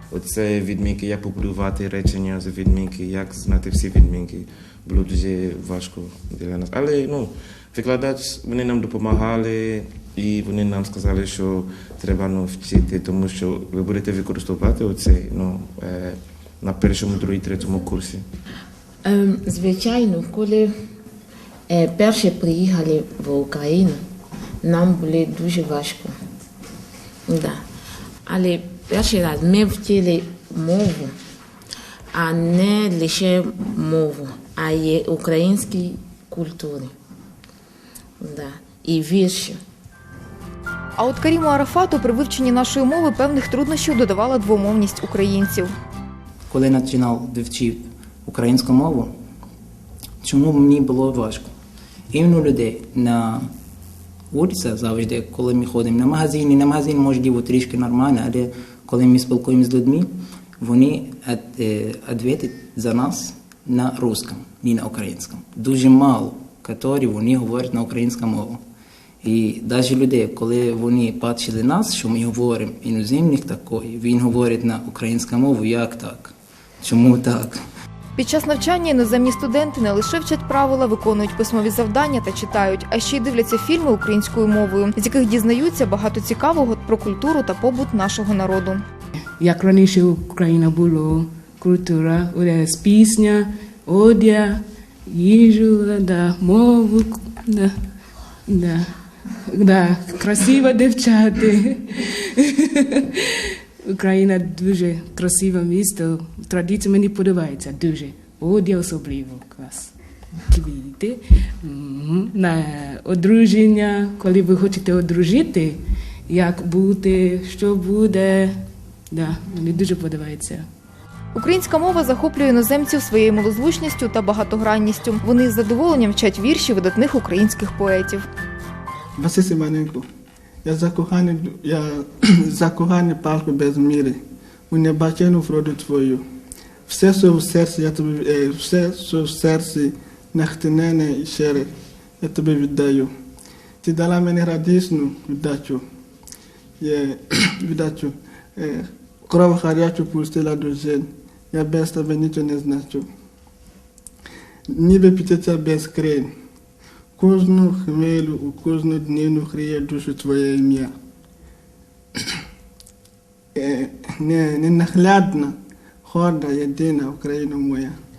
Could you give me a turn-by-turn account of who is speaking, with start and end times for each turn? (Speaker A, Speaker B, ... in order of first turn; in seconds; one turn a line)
Speaker A: 0.1-18.2
Speaker B: 19.1-20.7
Speaker B: 21.7-24.0
Speaker B: 24.6-26.1
Speaker B: 27.3-27.6
Speaker B: 28.3-31.1
Speaker B: 32.1-36.9
Speaker B: 38.2-39.6
Speaker C: 41.0-45.7
Speaker D: 46.5-49.1
Speaker D: 50.2-51.5
Speaker D: 52.1-53.5
Speaker D: 54.3-68.6
Speaker D: 69.2-77.6
Speaker C: 78.2-88.8
Speaker E: 89.4-97.7
Speaker E: 98.5-98.9
Speaker E: 99.5-109.9
Speaker E: 110.5-118.6
Speaker E: 119.1-120.7
Speaker C: 121.3-128.2
Speaker F: 129.2-130.1
Speaker F: 130.6-136.2
Speaker F: 136.9-143.1
Speaker F: 143.8-145.8
Speaker F: 146.8-153.1
Speaker F: 154.7-156.3
Speaker F: 157.2-160.9
Speaker F: 163.6-168.0